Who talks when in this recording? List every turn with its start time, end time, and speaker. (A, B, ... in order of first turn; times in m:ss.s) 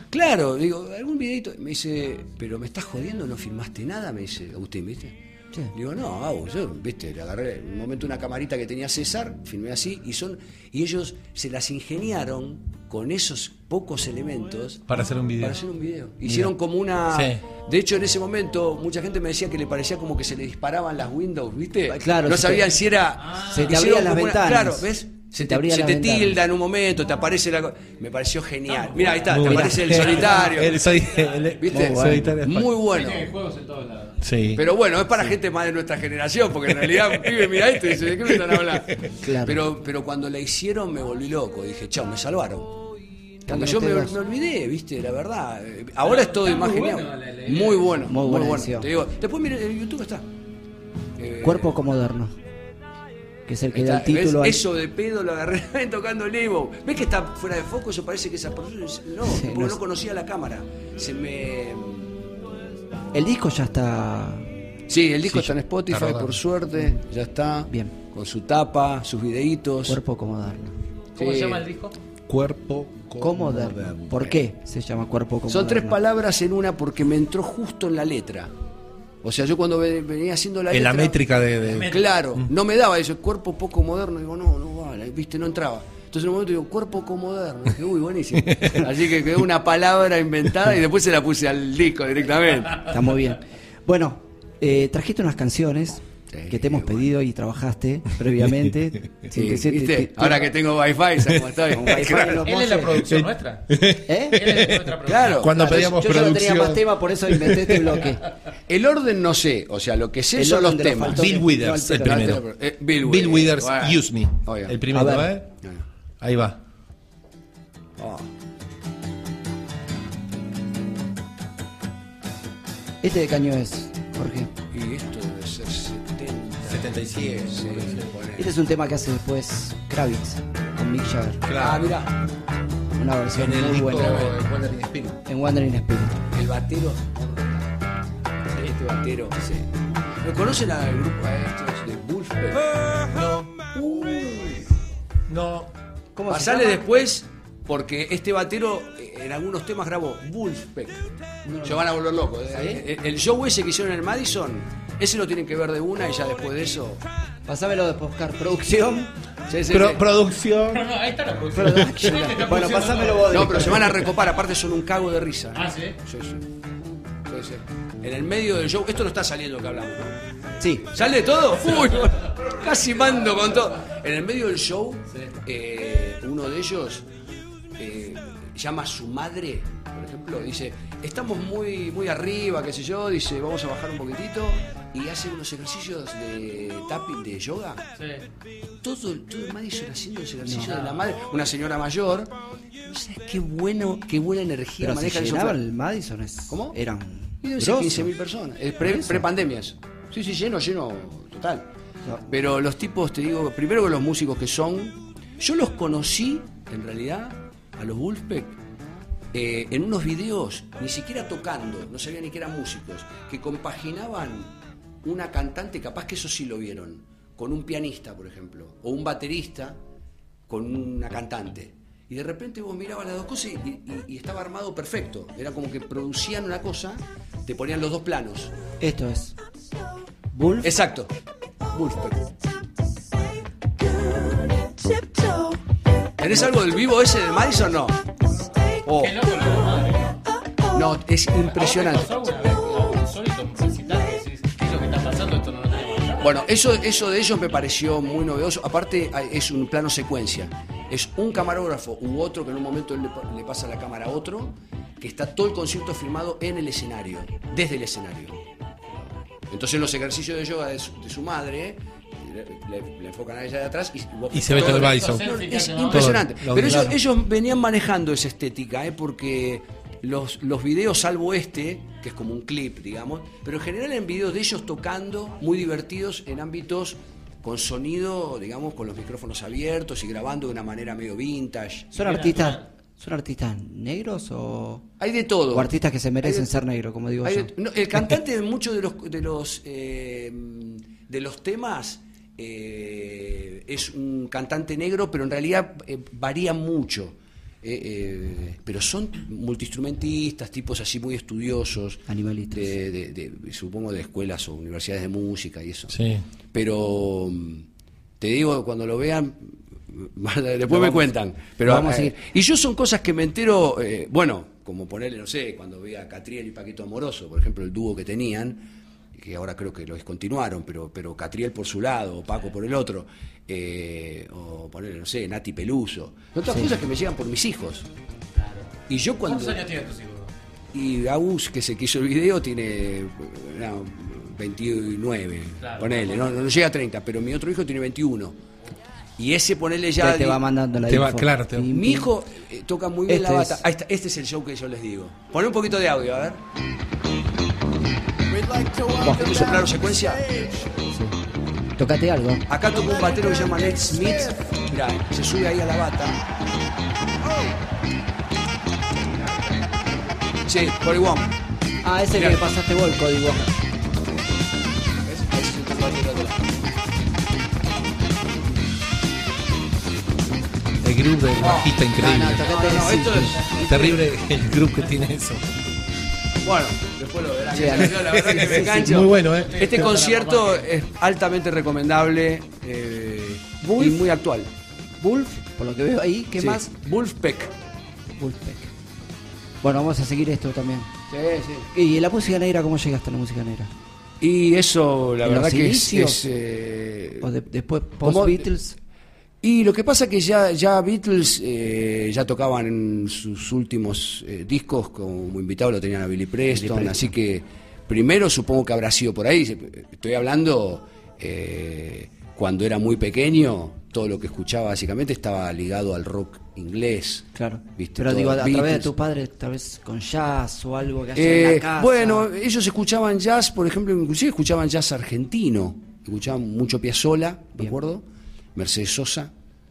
0:00.1-0:05.1 A
0:05.7-0:30.8 A
0:14.9-0:15.6 B
0:17.1-0:17.4 B
0:21.9-0:22.8 C
0:23.2-0:23.8 D
0:23.4-0:26.4 C
0:28.7-0:31.6 D
0:29.2-0:32.7 B
0:29.4-0:30.0 C
0:31.6-0:33.3 A
0:31.7-0:32.4 C
0:32.9-0:34.2 D
0:34.2-0:34.6 B
0:34.6-0:42.8 A
0:38.5-0:39.1 B
0:39.2-0:39.6 C
0:43.4-0:50.3 A
0:43.5-0:44.1 C
0:46.0-0:48.1 D
0:48.0-0:48.9 C
0:51.2-0:51.8 A
0:51.4-0:52.3 C
0:53.5-0:54.6 C
0:53.7-1:02.1 A
0:59.2-0:59.8 C
1:03.1-1:04.5 C
1:04.9-1:10.0 A
1:05.9-1:06.4 B
1:07.7-1:07.9 C
1:09.9-1:10.7 C
1:11.2-1:12.0 D
1:11.2-1:11.6 A
1:12.3-1:14.0 B
1:13.2-1:16.0 C
1:15.5-1:18.5 A
1:19.2-1:32.9 A
1:20.7-1:22.5 B
1:21.6-1:22.1 D
1:32.8-1:40.5 C
1:36.3-1:37.1 A
1:39.3-1:42.4 A
1:41.5-1:43.1 C
1:42.4-1:45.5 D
1:43.0-1:48.0 B
1:44.0-1:44.4 C
1:45.0-1:46.2 A
1:45.6-1:48.2 C
1:48.7-1:51.4 A
1:50.3-1:52.4 C
1:51.1-1:52.4 B
1:51.9-1:54.8 A
1:53.0-1:55.5 B
1:54.9-1:55.3 C
1:56.2-1:56.6 B
1:58.0-1:58.3 A
2:03.0-2:04.5 C
2:04.7-2:08.5 A
2:06.6-2:08.1 B
2:08.4-2:11.4 C
2:11.4-2:11.8 B
2:11.6-2:12.2 A
2:13.0-2:14.3 C
2:13.3-2:15.2 B
2:15.2-2:16.2 C
2:16.3-2:17.8 A
2:18.5-2:19.7 A
2:20.2-2:23.0 A
2:23.1-2:23.5 B
2:23.7-2:24.7 A
2:25.3-2:25.7 B
2:26.1-2:26.8 C
2:26.3-2:31.1 A
2:31.4-2:31.8 C
2:31.6-2:37.0 A
2:32.5-2:32.8 C
2:37.5-2:39.1 C
2:39.5-2:40.0 A
2:39.7-2:40.8 B
2:40.7-2:43.5 D
2:41.5-2:44.0 C
2:43.3-2:46.4 A
2:45.5-2:46.0 D
2:47.3-2:50.2 A
2:50.6-2:50.9 C
2:50.9-2:57.1 A
2:57.8-3:07.8 A
3:08.0-3:08.2 D
3:08.8-3:15.6 A
3:10.4-3:10.8 C
3:10.7-3:11.0 D
3:14.8-3:18.1 C
3:16.5-3:16.8 A
3:17.4-3:21.7 A
3:18.8-3:19.2 C
3:22.3-3:28.6 A
3:29.3-3:39.8 A
3:40.5-3:48.5 A
3:48.8-3:49.4 C
3:50.3-3:50.7 C
3:50.6-3:51.1 A
3:51.7-3:52.3 A
3:56.2-3:58.0 A
3:58.8-3:59.2 A
3:58.9-4:00.2 D
4:00.7-4:02.2 A
4:01.4-4:06.4 D
4:06.2-4:41.9 A
4:24.3-4:25.2 B
4:24.5-4:26.2 D
4:25.9-4:27.0 B
4:41.9-4:44.8 C
4:42.0-4:42.7 D
4:45.0-4:46.5 A
4:45.5-4:47.5 C
4:47.2-5:06.0 A
5:02.1-5:02.8 C
5:05.9-5:06.2 B
5:06.5-5:07.6 A
5:08.2-5:27.9 A
5:10.7-5:11.1 C
5:11.6-5:12.2 C
5:28.3-5:30.3 D
5:28.9-5:29.6 A
5:30.7-5:38.4 A
5:35.6-5:36.5 D
5:39.2-5:40.4 A
5:40.0-5:42.1 C
5:40.9-5:41.7 B
5:41.7-5:46.4 A
5:43.1-5:43.6 C
5:48.4-5:50.6 A
5:49.0-5:49.6 C
5:50.7-5:51.2 C
5:51.8-5:52.5 C
5:52.5-5:56.2 A
6:00.4-6:01.3 A
6:01.8-6:03.5 C
6:02.2-6:02.4 A
6:05.0-6:06.6 A
6:10.8-6:12.5 B
6:11.4-6:14.1 A
6:12.2-6:13.4 C
6:13.4-6:13.7 D
6:13.6-6:15.4 B
6:16.4-6:24.5 A
6:17.5-6:19.0 C
6:18.0-6:19.6 B
6:19.2-6:20.7 D
6:23.6-6:24.1 C
6:25.0-6:26.7 C
6:26.4-6:27.5 A
6:28.2-6:28.7 C
6:29.6-6:30.9 C
6:31.1-6:31.7 A
6:31.7-6:33.7 C
6:34.2-6:37.3 A
6:35.2-6:36.2 C
6:37.2-6:38.8 C
6:38.0-6:38.5 A
6:39.4-6:58.9 A
6:46.5-6:47.1 C
6:57.3-7:02.3 C
7:01.1-7:09.3 A